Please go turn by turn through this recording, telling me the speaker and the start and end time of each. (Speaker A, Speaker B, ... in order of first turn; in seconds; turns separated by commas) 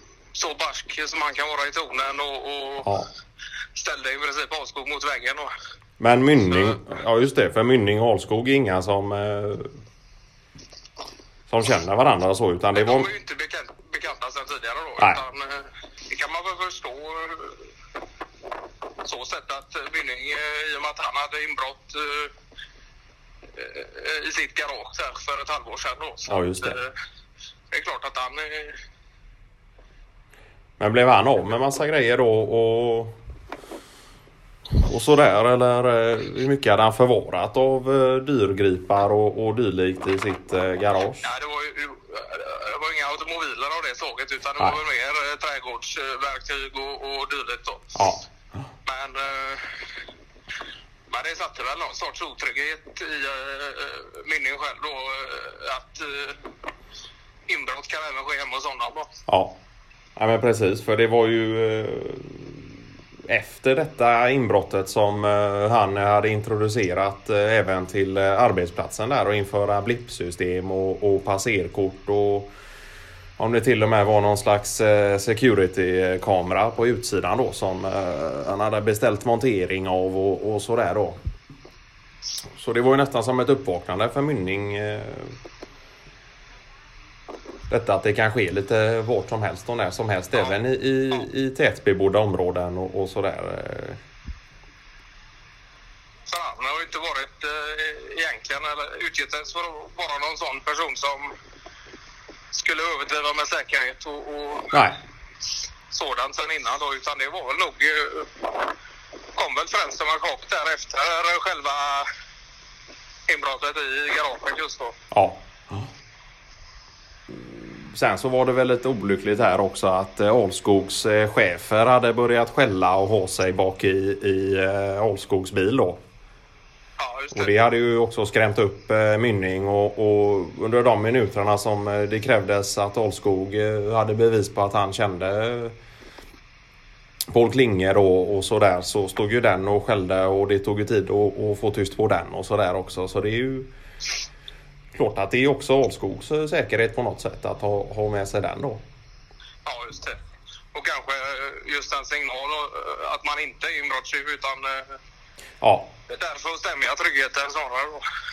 Speaker A: 0.3-2.9, Speaker B: 2.8-3.1, Speaker A: 3.8-5.5, Speaker B: 6.0-9.7, Speaker A: 6.5-6.8, Speaker B: 11.5-13.1, Speaker A: 12.8-17.7, Speaker A: 19.0-22.3, Speaker A: 23.6-26.9, Speaker B: 26.3-26.8, Speaker A: 27.7-28.8, Speaker B: 30.8-33.1, Speaker B: 34.8-41.3, Speaker A: 41.2-48.0, Speaker B: 48.0-48.2, Speaker A: 48.9-49.7, Speaker A: 51.1-56.4, Speaker A: 57.5-59.1, Speaker B: 59.3-59.6, Speaker B: 60.2-62.8, Speaker B: 63.3-72.5, Speaker B: 73.4-81.2, Speaker B: 82.5-85.3, Speaker B: 87.7-94.0, Speaker A: 96.3-101.3, Speaker A: 102.5-104.8, Speaker B: 104.7-105.0, Speaker A: 105.9-108.3, Speaker A: 109.3-112.1, Speaker A: 113.3-115.0, Speaker B: 115.1-115.9, Speaker B: 117.3-126.0, Speaker A: 127.0-127.5, Speaker B: 127.3-135.8, Speaker B: 137.3-143.7, Speaker B: 144.9-148.8, Speaker A: 149.7-150.2, Speaker A: 150.7-155.0, Speaker B: 155.6-155.9, Speaker A: 156.1-158.0